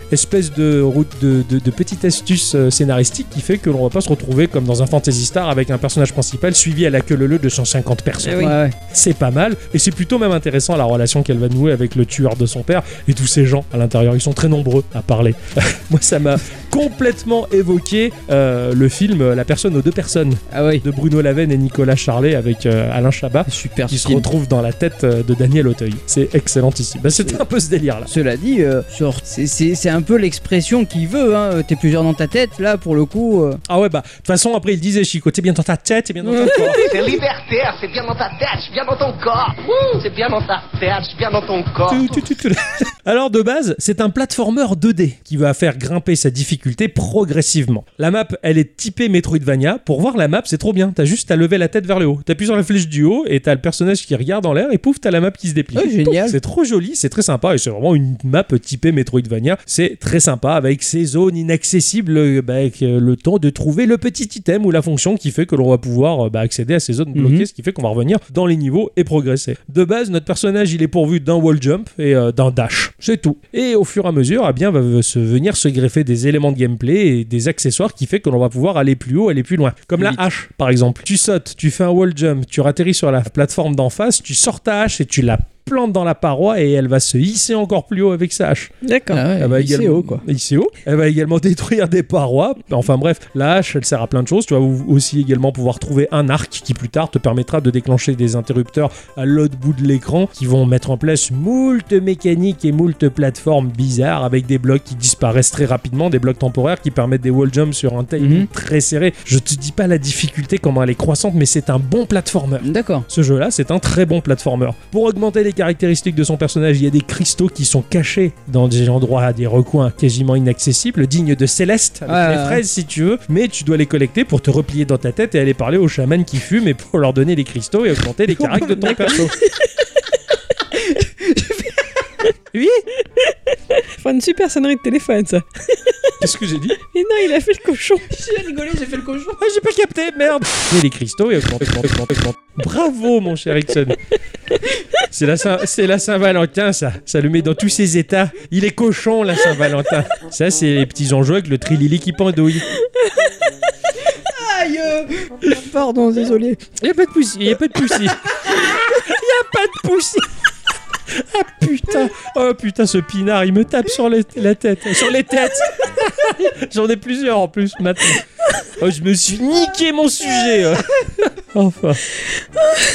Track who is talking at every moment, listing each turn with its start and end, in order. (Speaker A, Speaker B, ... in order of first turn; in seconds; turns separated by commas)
Speaker A: 0.1-28.1, Speaker B: 8.2-8.6, Speaker C: 8.4-8.7, Speaker C: 20.5-20.9, Speaker C: 23.5-24.3, Speaker C: 28.1-33.6, Speaker A: 33.7-36.8, Speaker B: 36.3-37.0, Speaker D: 36.7-42.2, Speaker A: 41.9-88.7, Speaker C: 55.8-56.4, Speaker C: 67.2-67.5, Speaker B: 88.8-89.2, Speaker C: 89.1-90.2, Speaker A: 89.4-129.4, Speaker C: 108.2-108.5, Speaker C: 112.6-113.1, Speaker C: 122.1-122.6, Speaker C: 128.4-129.2, Speaker B: 128.8-129.3, Speaker C: 130.7-131.8, Speaker A: 132.5-132.9, Speaker B: 133.8-136.2, Speaker A: 136.2-136.8, Speaker B: 136.8-138.1, Speaker C: 138.1-139.4, Speaker A: 139.4-144.0, Speaker A: 145.1-152.7, Speaker B: 152.8-153.1, Speaker C: 154.2-156.6, Speaker A: 156.8-160.2, Speaker A: 161.1-172.0